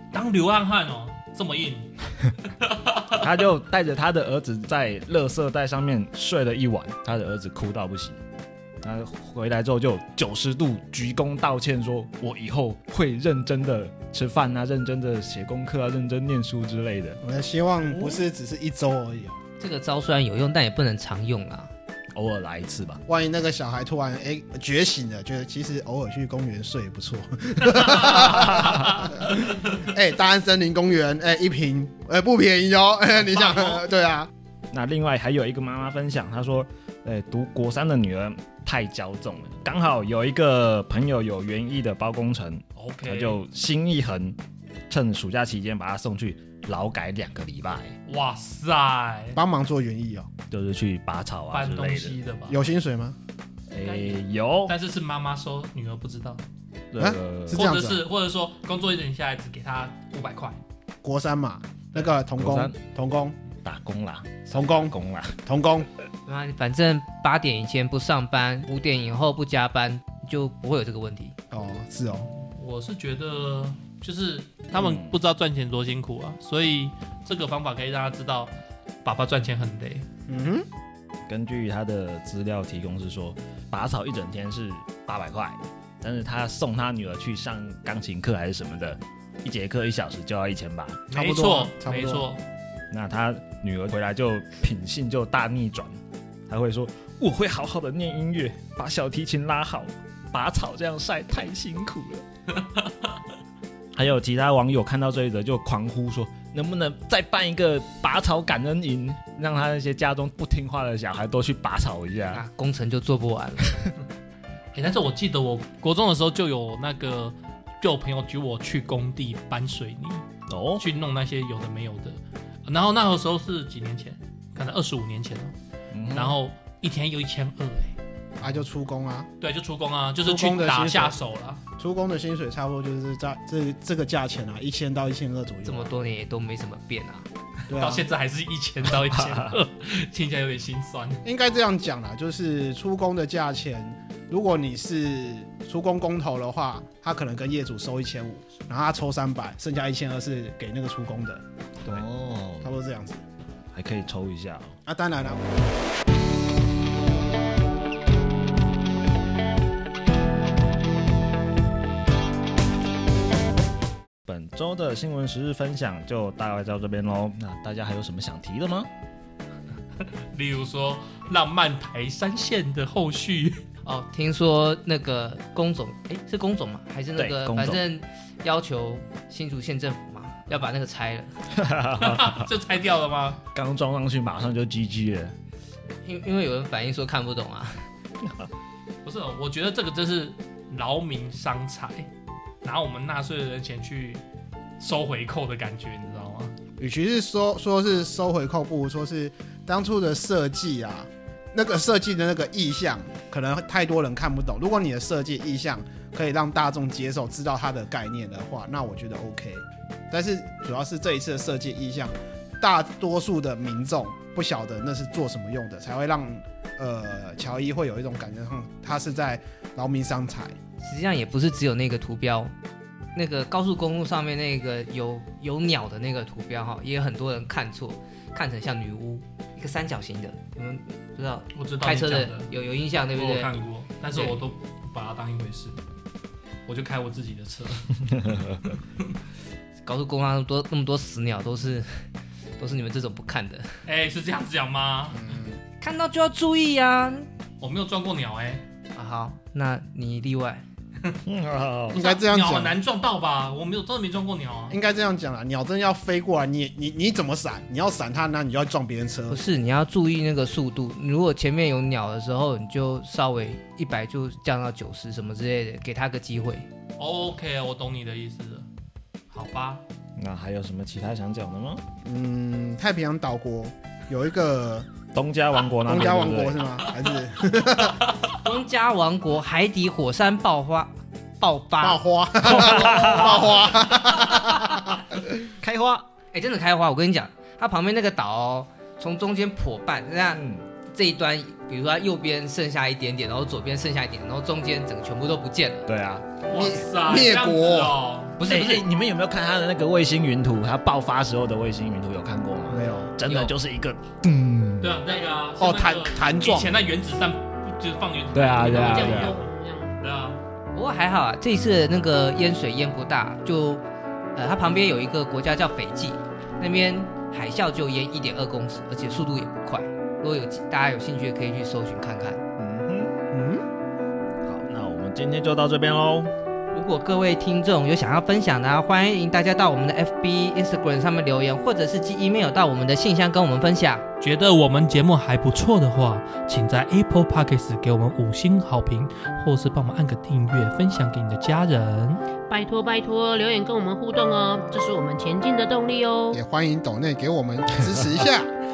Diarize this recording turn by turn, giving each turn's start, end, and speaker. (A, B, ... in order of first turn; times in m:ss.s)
0:00.1-0:03.2 A
0:03.2-0:08.2 B
0:08.8-0:17.2 B
0:17.2-0:19.4 C
0:17.9-0:18.2 A
0:19.6-0:21.7 D
0:22.1-0:23.0 B
0:23.1-0:34.3 C
0:27.7-0:28.3 A
0:28.4-0:29.0 B
0:33.2-0:33.8 A
0:34.7-0:44.4 B
0:42.8-0:43.4 A
0:44.9-0:48.0 B
0:48.1-0:49.4 A
0:49.4-0:50.3 C
0:50.5-0:52.2 B
0:51.5-0:52.6 A
0:52.5-0:53.2 C
0:53.7-0:54.8 B
0:54.7-0:56.4 A
0:56.9-0:57.6 B
0:57.0-0:58.0 C
0:57.5-1:00.6 A
1:01.0-1:03.4 C
1:02.4-1:02.8 B
1:03.6-1:05.4 B
1:04.5-1:04.9 C
1:05.5-1:05.9 C
1:06.2-1:11.4 D
1:11.5-1:12.3 C
1:12.3-1:20.1 A
1:14.8-1:15.2 B
1:20.3-1:20.6 C
1:21.3-1:31.0 B
1:31.1-1:32.4 A
1:31.1-1:32.3 C
1:32.9-1:42.2 B
1:44.0-1:52.4 B
1:52.3-1:53.8 D
1:54.7-2:00.2 A
2:00.5-2:00.9 B
2:00.8-2:05.6 A
2:05.9-2:06.4 B
2:06.1-2:08.0 A
2:08.4-2:09.3 C
2:09.4-2:11.6 A
2:10.2-2:11.2 C
2:11.8-2:16.0 C
2:15.6-2:17.3 D
2:17.7-2:21.2 A
2:17.7-2:18.1 C
2:19.2-2:19.5 B
2:21.2-2:32.0 C
2:31.8-2:32.7 B
2:32.6-2:33.2 C
2:33.7-2:34.8 B
2:34.9-2:35.4 C
2:44.2-2:48.9 B
2:50.3-2:53.6 A
2:53.8-3:01.3 D
2:57.2-2:57.8 B
3:01.5-3:02.5 B
3:02.0-3:03.4 A
3:03.5-3:05.4 B
3:06.0-3:07.8 D
3:08.2-3:08.5 B
3:09.0-3:12.1 A
3:12.6-3:14.2 A
3:14.8-3:16.5 A
3:16.8-3:40.6 C
3:40.8-3:42.5 D
3:43.1-3:53.6 D
3:51.5-3:52.5 A
3:53.1-3:55.8 A
3:54.1-3:54.4 D
3:56.7-3:59.1 A
3:59.8-4:01.9 D
4:02.6-4:03.7 D
4:03.9-4:05.3 A
4:05.1-4:05.6 C
4:05.8-4:07.3 D
4:07.6-4:08.6 A
4:08.9-4:10.6 D
4:11.3-4:12.0 B
4:11.9-4:14.8 A
4:11.9-4:12.8 C
4:14.7-4:19.4 C
4:19.3-4:26.7 D
4:27.0-4:28.7 A
4:29.3-4:29.8 A
4:30.2-4:31.8 B
4:32.0-4:34.9 C
4:35.1-4:36.6 B
4:35.9-4:38.0 C
4:38.4-4:42.0 D
4:41.8-4:45.3 C
4:42.5-4:43.5 B
4:42.8-4:43.6 D
4:45.4-4:46.1 B
4:46.3-4:55.9 D
4:50.3-4:50.7 B
4:55.9-4:56.4 B
4:56.4-4:58.5 A
4:56.5-4:58.0 C
4:58.4-5:04.9 B
5:02.7-5:03.1 C
5:02.8-5:03.1 E
5:03.2-5:03.6 D
5:04.8-5:09.4 A
5:05.6-5:06.9 C
5:08.3-5:09.4 B
5:08.6-5:09.9 E
5:10.0-5:10.4 A
5:10.7-5:22.4 D
5:22.6-5:23.6 C
5:24.4-5:26.3 B
5:26.7-5:34.0 D
5:34.2-5:42.2 A
5:42.5-5:46.4 E
5:46.3-5:48.5 C